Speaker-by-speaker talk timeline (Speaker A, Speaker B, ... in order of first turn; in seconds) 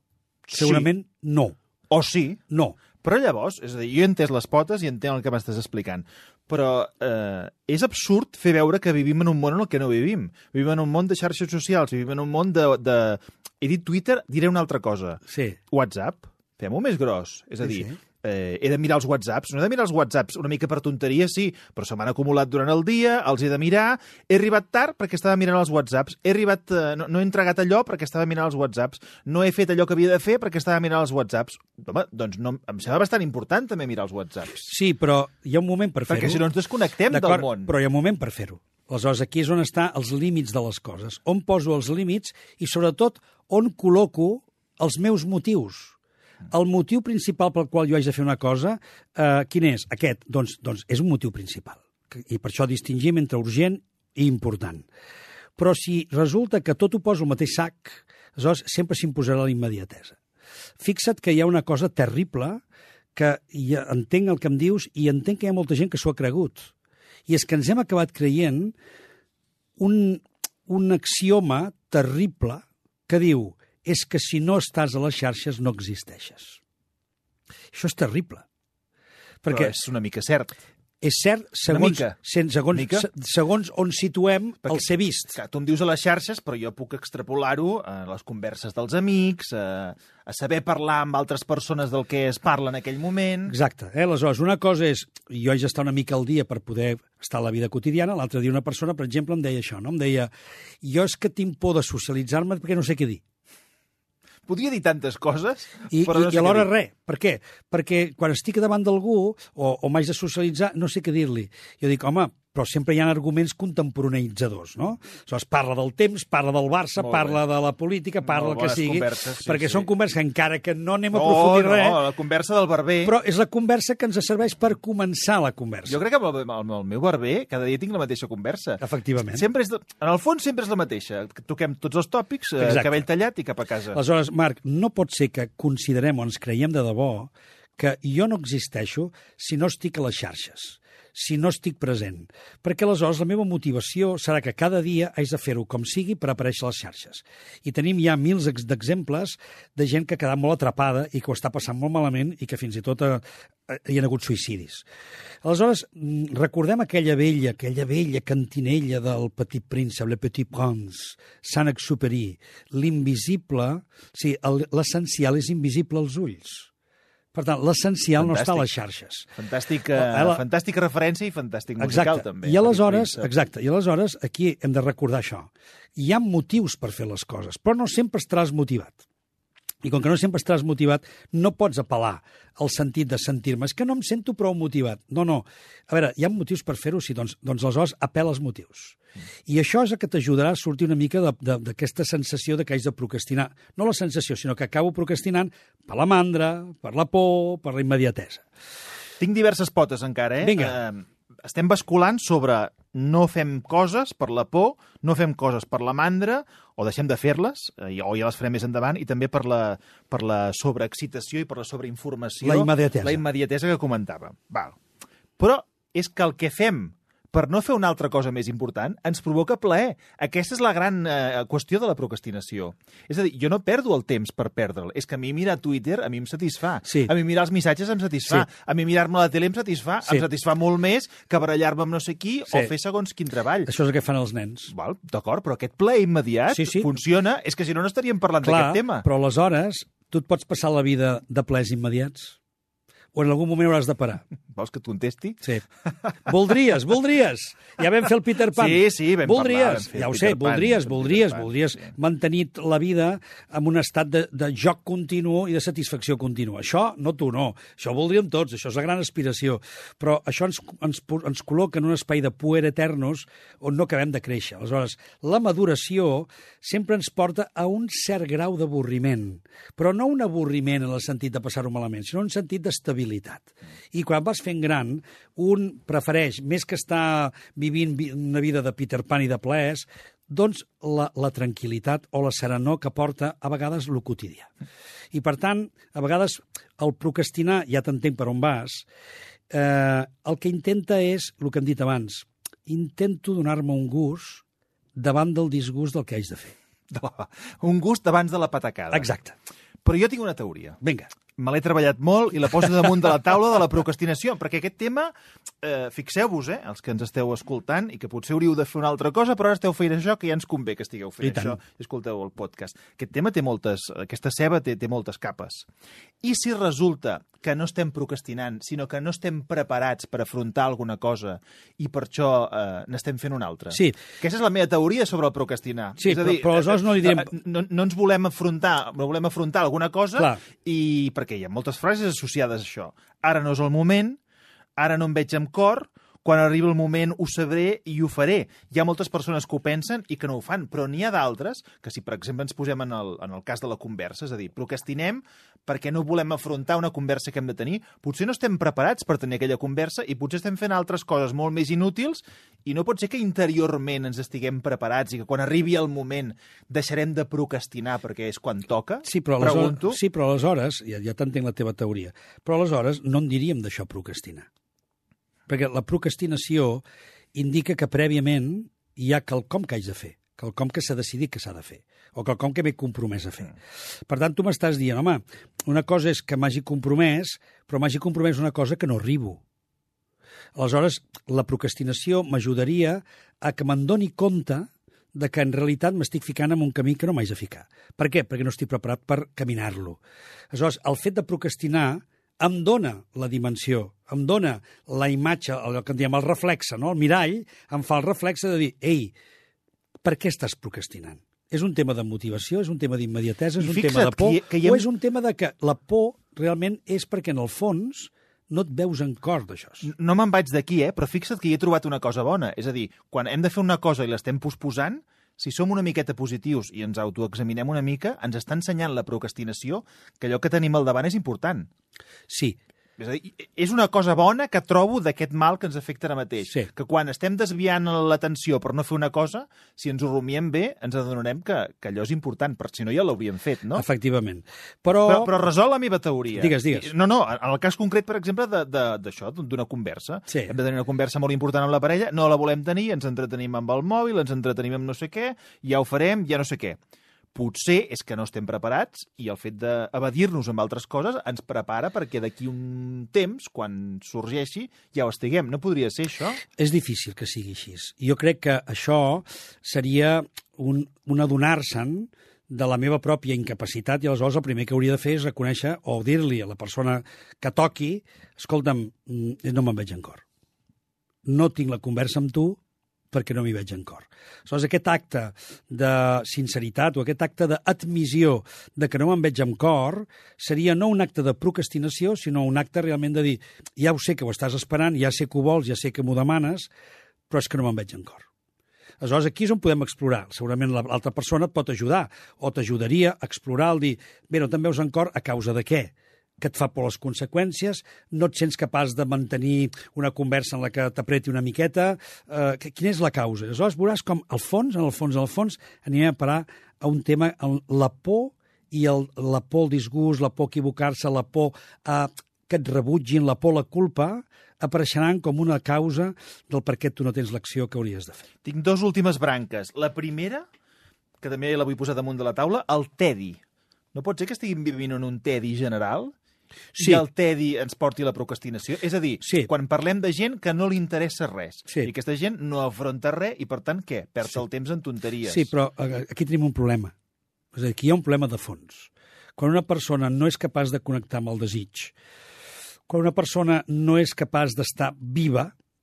Speaker A: 0.5-0.9, 1.9-2.4, 3.0-34.7, 36.1-37.7, 79.5-80.5, 81.7-82.2, 82.7-83.1, 84.6-93.5, 104.5-106.7, 117.0-117.4, 118.2-119.9, 121.1-123.2, 125.9-134.0, 168.2-168.7, 169.4-173.3, 199.2-214.8, 215.4-233.7, 234.7-239.1, 244.5-245.4, 248.5-251.9, 296.9-299.1, 299.8-300.8, 301.4-315.7, 316.2-334.2, 334.8-360.0, 403.6-404.9, 409.8-421.7, 423.0-433.8, 435.1-446.8, 447.4-456.4, 518.4-520.5, 521.2-523.4, 523.9-526.1, 526.8-535.5
Speaker B: 0.5-1.6, 2.5-2.8, 15.3-15.6, 17.6-18.0, 34.7-36.5, 37.1-46.0, 46.5-54.9, 55.6-60.2, 60.8-62.6, 63.1-66.7, 67.3-68.7, 69.8-76.6, 77.7-78.5, 79.4-79.7, 81.0-85.4, 93.5-100.3, 100.8-103.2, 105.9-122.0, 123.0-126.0, 128.8-129.4, 132.6-133.0, 133.9-154.9, 155.4-166.7, 167.3-169.3, 169.9-170.4, 171.8-179.0, 179.8-189.0, 189.5-198.4, 200.4-200.8, 212.4-213.2, 226.9-227.1, 233.7-234.7, 236.5-236.9, 238.4-242.4, 243.1-244.2, 246.3-284.5, 285.1-288.9, 289.5-294.4, 295.0-296.6, 298.9-299.4, 300.8-301.1, 311.2-311.6, 323.7-324.0, 326.0-327.3, 359.1-364.5, 365.5-366.8, 367.4-373.5, 374.1-379.4, 380.6-390.0, 390.5-399.1, 400.0-409.9, 422.3-422.6, 433.8-435.3, 436.4-436.9, 456.6-470.2, 471.3-472.6, 473.1-486.7, 487.3-488.3, 489.0-518.2, 526.8-527.0, 529.2-529.5, 535.3-536.9, 537.5-541.9, 542.9-545.5